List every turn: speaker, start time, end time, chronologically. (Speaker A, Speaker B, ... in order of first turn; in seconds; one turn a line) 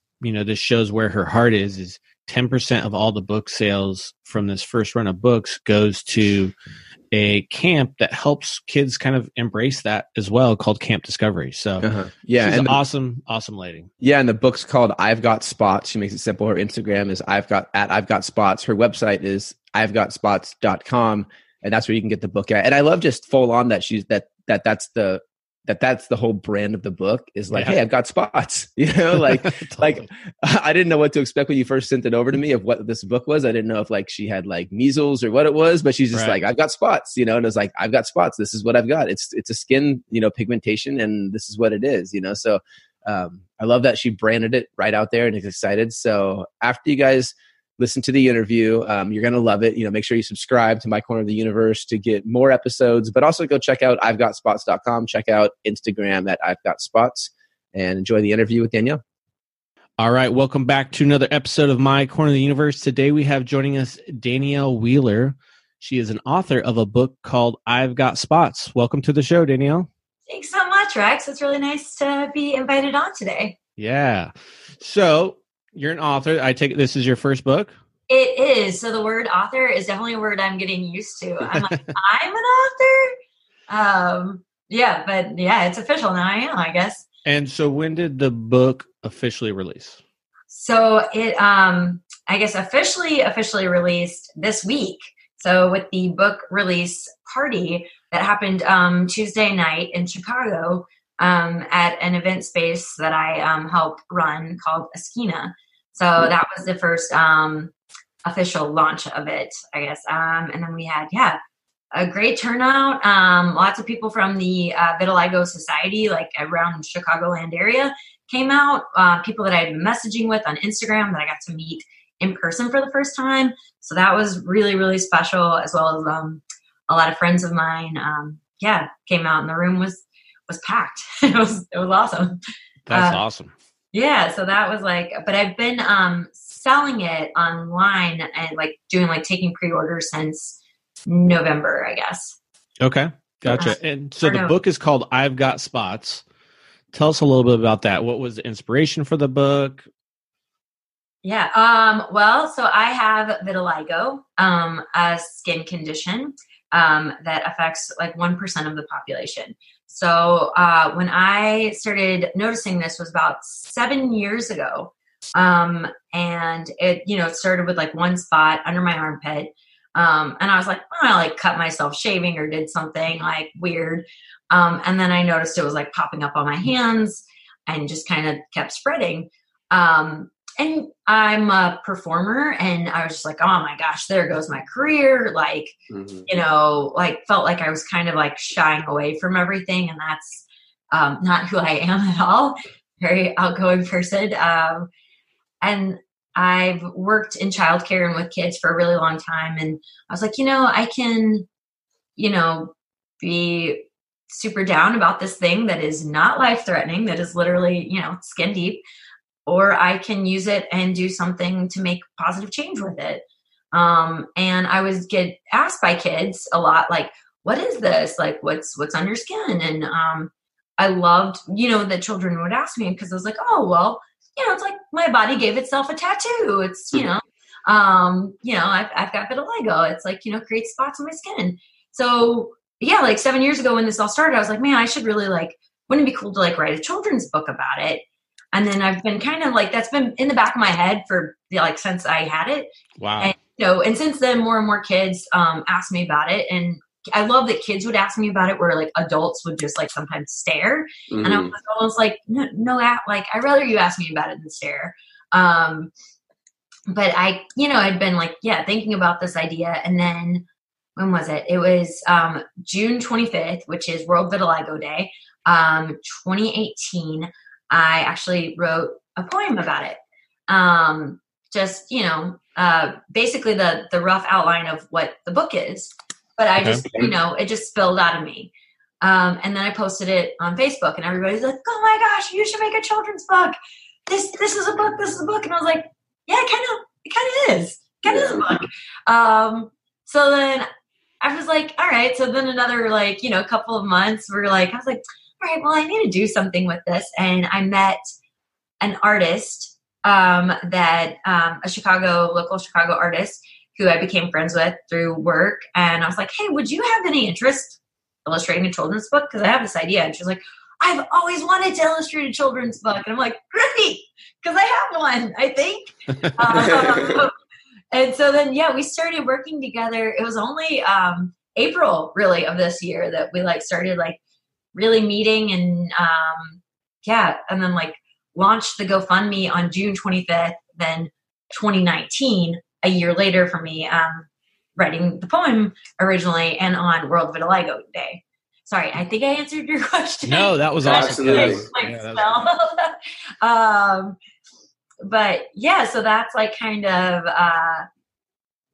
Speaker A: 0.2-6.5
Speaker A: 7.1-13.9
Speaker B: 11.8-12.8
Speaker B: 14.0-59.0
Speaker A: 29.2-30.0
Speaker A: 36.1-36.4
Speaker A: 60.0-69.9
Speaker C: 70.3-73.5
Speaker A: 73.8-77.7
Speaker C: 78.1-83.1
Speaker A: 81.5-81.8
Speaker C: 83.7-87.0
Speaker A: 87.2-90.0
Speaker C: 90.5-107.7
Speaker C: 108.2-111.4
Speaker C: 111.9-132.4
Speaker A: 132.9-133.5
Speaker C: 132.9-133.2
Speaker C: 133.9-142.4
Speaker A: 142.8-146.2
Speaker C: 143.5-144.6
Speaker A: 146.9-149.8
Speaker C: 151.2-185.7
Speaker B: 185.9-186.2
Speaker C: 186.3-194.9
Speaker C: 195.6-201.4
Speaker C: 202.2-208.8
Speaker C: 209.4-255.9
Speaker A: 243.0-243.3
Speaker B: 251.1-251.5
Speaker C: 256.9-260.4
Speaker C: 260.9-278.5
Speaker C: 279.0-283.6
Speaker C: 284.1-290.7
Speaker B: 288.1-288.5
Speaker C: 291.2-298.0
Speaker C: 298.8-317.3
Speaker B: 316.6-317.2
Speaker C: 317.9-324.2
Speaker C: 324.7-344.2
Speaker A: 340.2-342.4
Speaker B: 340.8-341.6
Speaker C: 345.0-347.9